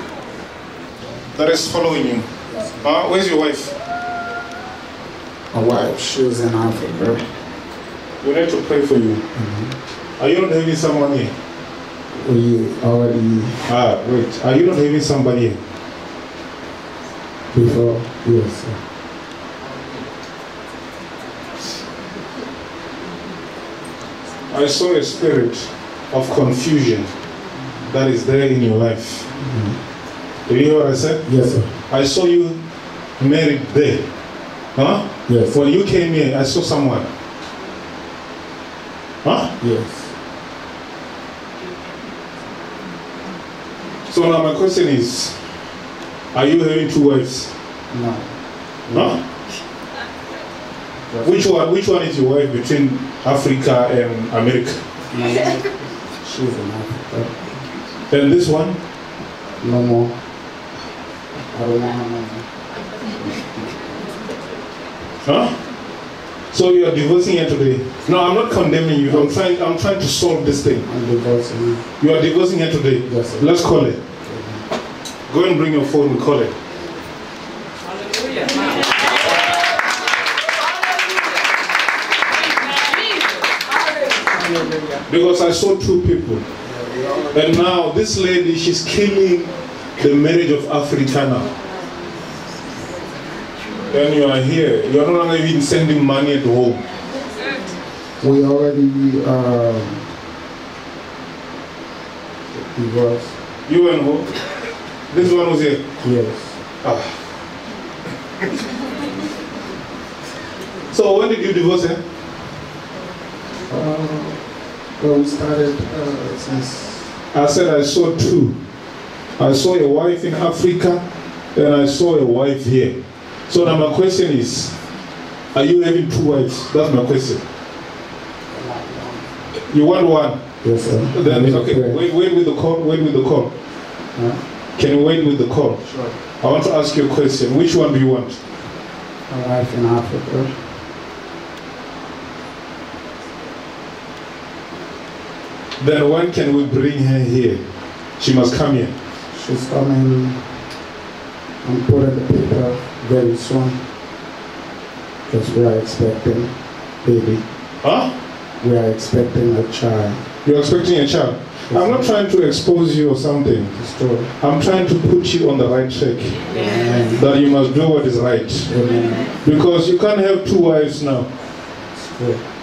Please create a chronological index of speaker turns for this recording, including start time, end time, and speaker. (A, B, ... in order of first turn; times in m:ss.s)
0:01.3-0:03.7 A
0:05.5-0:07.2 B
0:08.2-0:09.2 A
0:09.3-0:09.8 B
0:10.2-0:11.3 A
0:12.1-0:13.7 B
0:13.6-0:15.6 A
0:17.5-0:18.8 B
0:24.5-0:27.1 A
0:27.8-0:29.3 A
0:29.4-0:29.8 B
0:30.5-0:31.3 A
0:31.2-0:31.7 B
0:31.9-0:32.6 A
0:33.2-0:34.0 A
0:34.7-0:37.1 A
0:35.2-0:35.6 B
0:39.2-0:39.5 A
0:39.6-0:40.1 B
0:44.1-0:45.4 A
0:46.3-0:47.5 A
0:47.9-0:49.1 B
0:48.9-0:49.2 A
0:51.1-0:51.4 B
0:51.2-0:54.8 A
0:55.1-0:55.7 B
0:56.2-0:57.5 B
0:58.1-0:58.8 A
0:59.6-1:00.1 B
1:01.5-1:02.4 B
1:05.2-1:05.6 A
1:06.5-1:10.8 A
1:09.0-1:09.4 B
1:10.8-1:11.8 B
1:12.0-1:14.0 A
1:13.0-1:13.6 B
1:14.2-1:14.6 B
1:15.3-1:16.5 A
1:25.0-1:26.4 A
1:26.6-1:27.4 B
1:27.3-1:31.5 A
1:33.9-1:36.8 A
1:38.2-1:40.1 B
1:42.5-1:43.3 B
1:43.7-1:44.4 A
1:45.1-1:45.8 A
1:46.0-1:46.6 B
1:46.8-1:47.2 A
1:50.9-1:52.0 A
1:53.7-1:54.4 B
1:55.0-1:57.1 B
1:57.3-1:58.6 A
1:59.4-2:03.0 A
2:03.5-2:04.8 A
2:05.5-2:07.4 A
2:08.5-2:09.3 B
2:09.7-2:10.4 A
2:10.6-2:12.0 B
2:11.1-2:13.5 A
2:14.1-2:14.4 B
2:14.8-2:18.4 A
2:15.8-2:16.2 B
2:19.3-2:20.6 B
2:25.8-2:27.6 A
2:28.2-2:28.9 A
2:29.3-2:30.4 B
2:31.6-2:33.8 B
2:35.3-2:37.4 B
2:37.8-2:38.1 A
2:38.6-2:40.2 B
2:40.4-2:43.8 A
2:41.7-2:42.1 B
2:43.7-2:44.3 B
2:44.4-2:46.4 A
2:46.5-2:47.3 B
2:47.1-2:48.8 A
2:48.6-2:49.4 B
2:49.4-2:51.3 A
2:52.1-2:52.4 B